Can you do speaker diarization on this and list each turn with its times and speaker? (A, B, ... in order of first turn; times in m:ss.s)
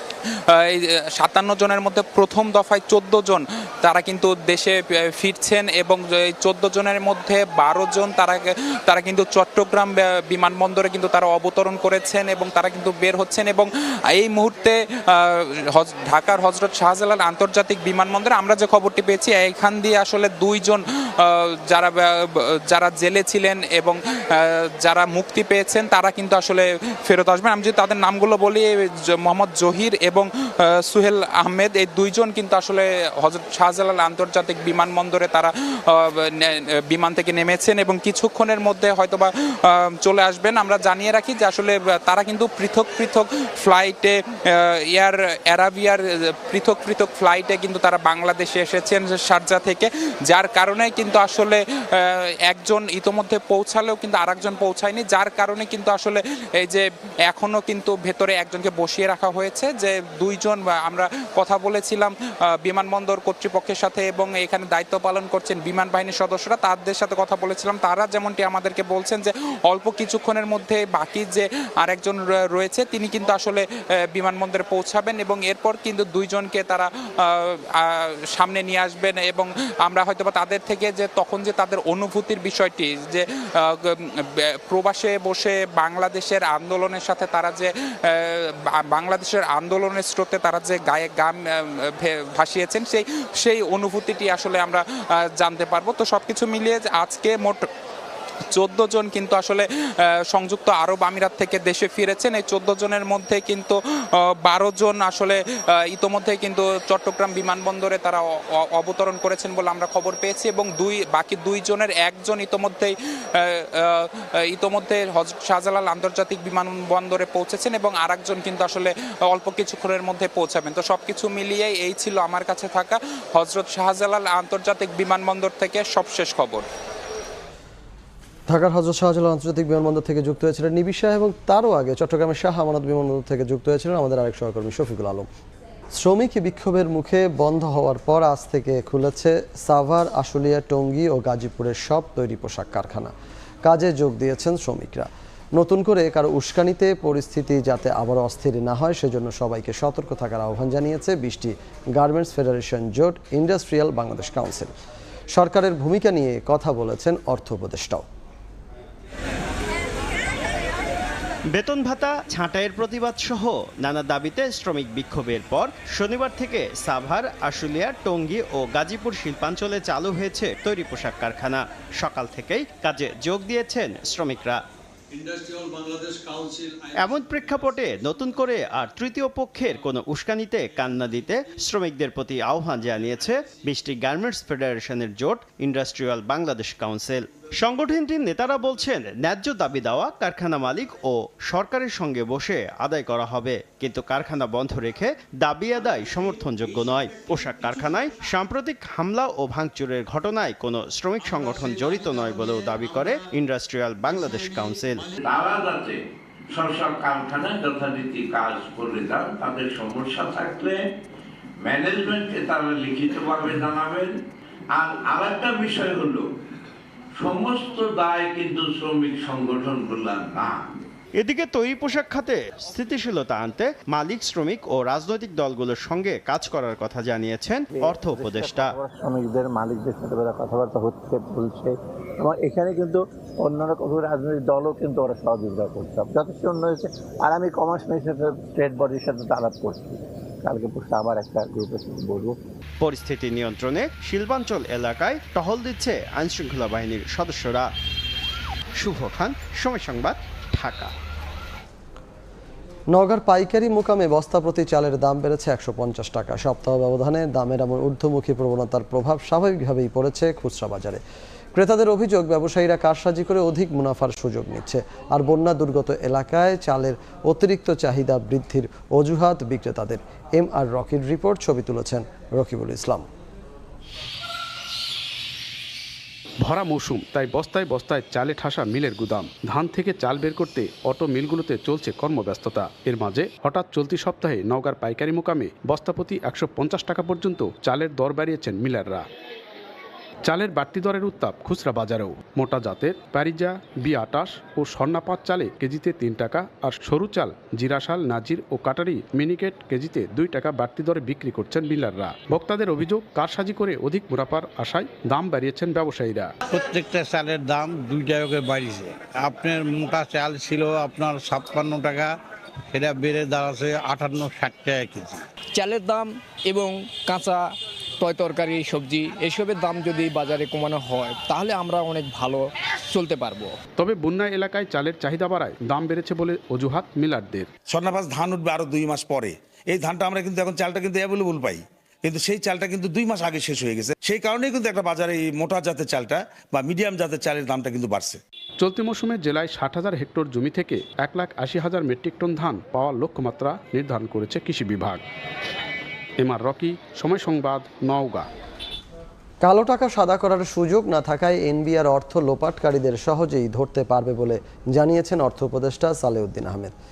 0:00.3-1:37.7 A
1:38.5-2:06.7 A
2:08.5-2:15.3 B
2:16.0-2:23.1 B
2:23.6-2:34.7 B
2:35.3-2:38.0 B
2:41.5-2:54.6 C
2:57.0-3:25.1 C
3:25.2-3:26.0 D
3:26.5-3:30.8 D
3:31.6-3:34.1 D
3:34.8-3:36.2 D
3:37.2-3:40.7 D
3:41.2-3:48.8 C
3:47.8-4:02.4 E
4:02.8-4:07.7 C
4:08.8-4:10.9 C
4:12.9-4:21.0 B
4:21.5-4:33.1 B
4:36.4-4:49.1 F
4:50.3-5:06.3 F
5:06.5-5:12.1 G
5:12.7-5:15.2 G
5:15.6-5:17.4 H
5:18.0-5:22.4 H
5:22.9-5:23.5 H
5:23.8-5:27.5 F
5:27.7-5:38.2 I
5:38.6-5:45.0 F
5:46.2-5:48.3 F
5:49.4-5:56.8 B